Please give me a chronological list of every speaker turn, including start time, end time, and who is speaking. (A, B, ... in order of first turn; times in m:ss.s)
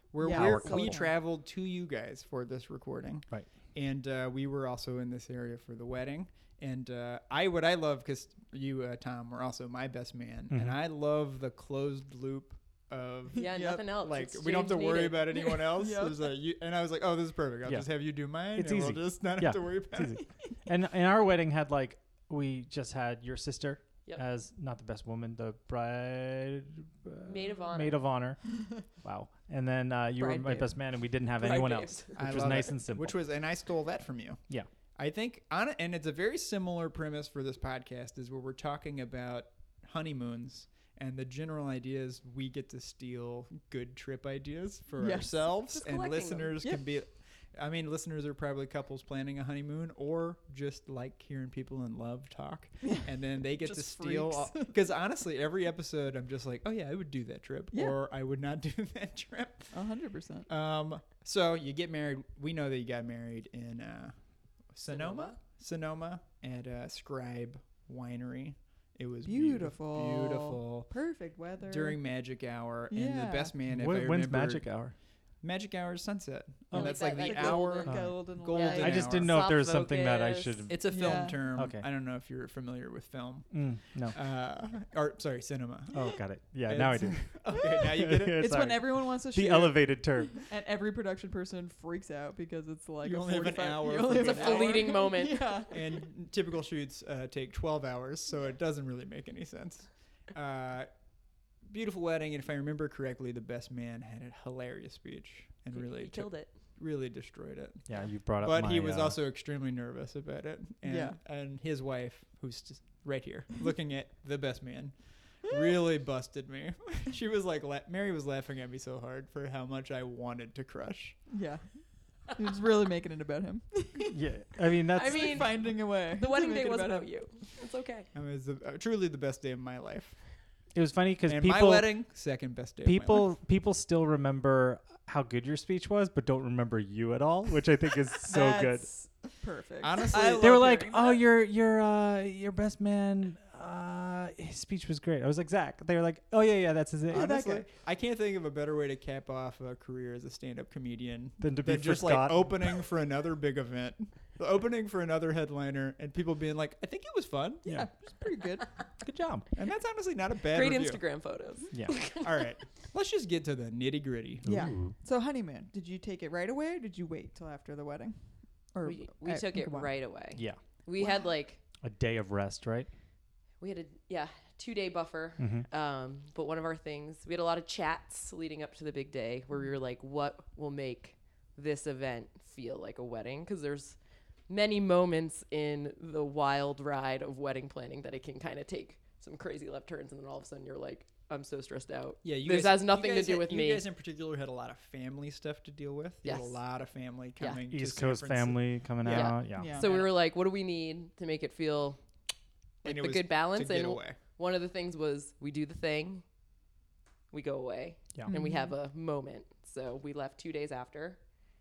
0:00.1-0:20.2 A
0:00.2-0:01.2 B
0:00.2-0:01.0 C
0:10.5-0:10.8 C
0:13.3-0:14.0 B
0:13.3-0:15.4 D
0:15.3-0:16.3 B
0:18.6-0:33.2 C
0:27.3-0:28.0 D
0:30.2-0:30.7 B
0:31.4-0:32.2 D
0:32.2-0:34.4 A
0:35.0-0:59.8 A
0:45.0-0:45.3 B
0:45.7-0:46.6 D
0:53.4-0:54.8 B
0:57.7-0:58.0 B
0:59.7-1:00.5 B
1:00.5-1:04.2 A
1:04.7-1:10.9 A
1:04.9-1:05.4 D
1:09.2-1:12.0 B
1:11.6-1:14.7 A
1:12.9-1:13.5 B
1:13.7-1:14.9 C
1:15.4-1:19.5 A
1:16.7-1:17.0 C
1:16.7-1:20.8 D
1:17.0-1:19.1 B
1:17.9-1:18.2 C
1:18.7-1:21.9 C
1:20.7-1:28.5 A
1:20.9-1:21.4 B
1:23.5-1:24.2 C
1:25.9-1:30.5 C
1:28.4-1:35.8 B
1:33.0-1:35.0 A
1:34.1-1:35.6 D
1:35.7-1:40.9 A
1:41.6-2:01.2 A
1:45.7-1:46.5 D
1:47.9-1:49.2 C
1:50.8-1:51.2 B
2:01.3-2:01.6 B
2:02.3-2:04.2 B
2:04.1-2:05.6 C
2:05.0-2:08.1 D
2:05.0-2:07.1 B
2:08.1-2:10.2 A
2:10.8-2:11.9 C
2:11.3-2:13.3 A
2:12.8-2:18.9 C
2:18.3-2:21.2 B
2:19.8-2:20.7 A
2:20.4-2:27.4 C
2:27.1-2:37.7 A
2:27.1-2:27.7 B
2:31.4-2:32.8 C
2:37.7-2:38.7 B
2:39.0-2:39.5 C
2:39.6-2:41.0 A
2:40.5-2:42.5 D
2:41.7-2:42.0 C
2:42.1-2:44.5 A
2:44.4-2:45.0 C
2:44.4-2:49.9 B
2:48.8-2:51.6 D
2:50.3-2:50.6 C
2:51.8-2:52.9 C
2:53.6-3:04.0 D
2:55.4-2:55.7 C
3:04.5-3:13.9 D
3:12.2-3:20.1 A
3:16.2-3:16.6 D
3:17.7-3:19.7 C
3:19.1-3:22.0 D
3:19.6-3:20.0 B
3:22.8-3:26.2 D
3:22.8-3:24.2 A
3:27.3-3:31.2 D
3:28.3-3:28.8 B